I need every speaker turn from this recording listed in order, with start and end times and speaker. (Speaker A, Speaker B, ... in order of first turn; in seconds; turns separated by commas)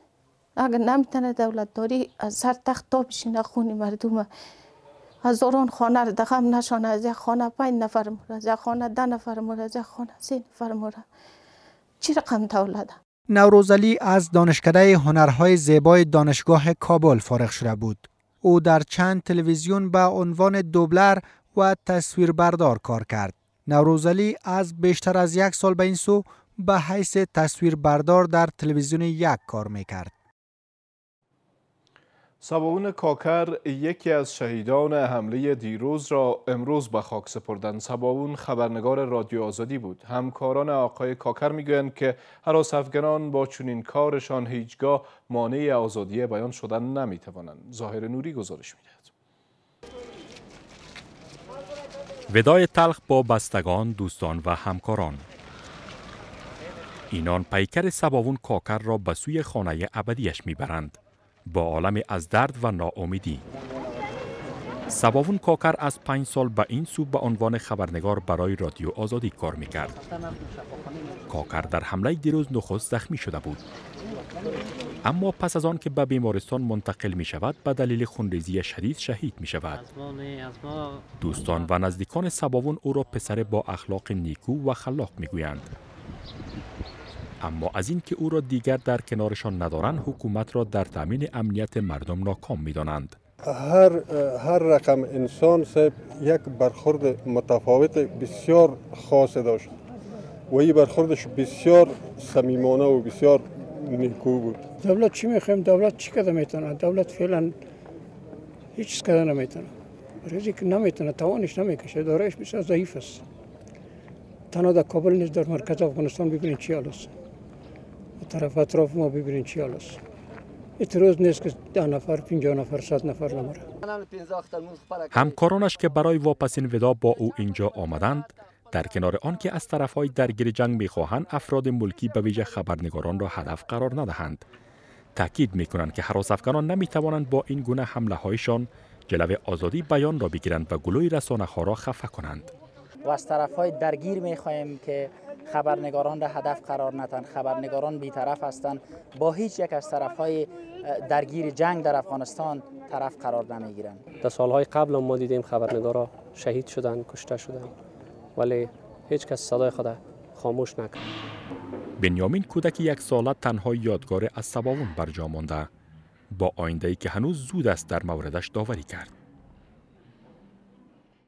Speaker A: 0.6-4.2, Speaker A: 5.2-11.0, Speaker A: 12.0-12.9, Speaker B: 13.3-30.1, Speaker C: 32.4-49.1, Speaker D: 52.3-55.2, Speaker D: 57.1-61.0, Speaker D: 61.5-63.4, Speaker D: 64.9-69.9, Speaker D: 71.3-73.6, Speaker D: 75.0-79.8, Speaker D: 81.2-85.7, Speaker D: 87.4-93.2, Speaker E: 93.4-99.8, Speaker E: 100.5-104.7, Speaker F: 104.8-107.5, Speaker F: 108.7-109.7, Speaker F: 110.2-113.2, Speaker F: 114.5-117.1, Speaker F: 118.2-120.0, Speaker F: 120.8-123.7, Speaker D: 125.1-134.4, Speaker D: 135.2-142.5, Speaker G: 143.0-154.0, Speaker H: 154.3-155.9, Speaker H: 156.5-157.6, Speaker H: 159.2-159.9, Speaker D: 162.0-165.7, Speaker D: 166.3-169.1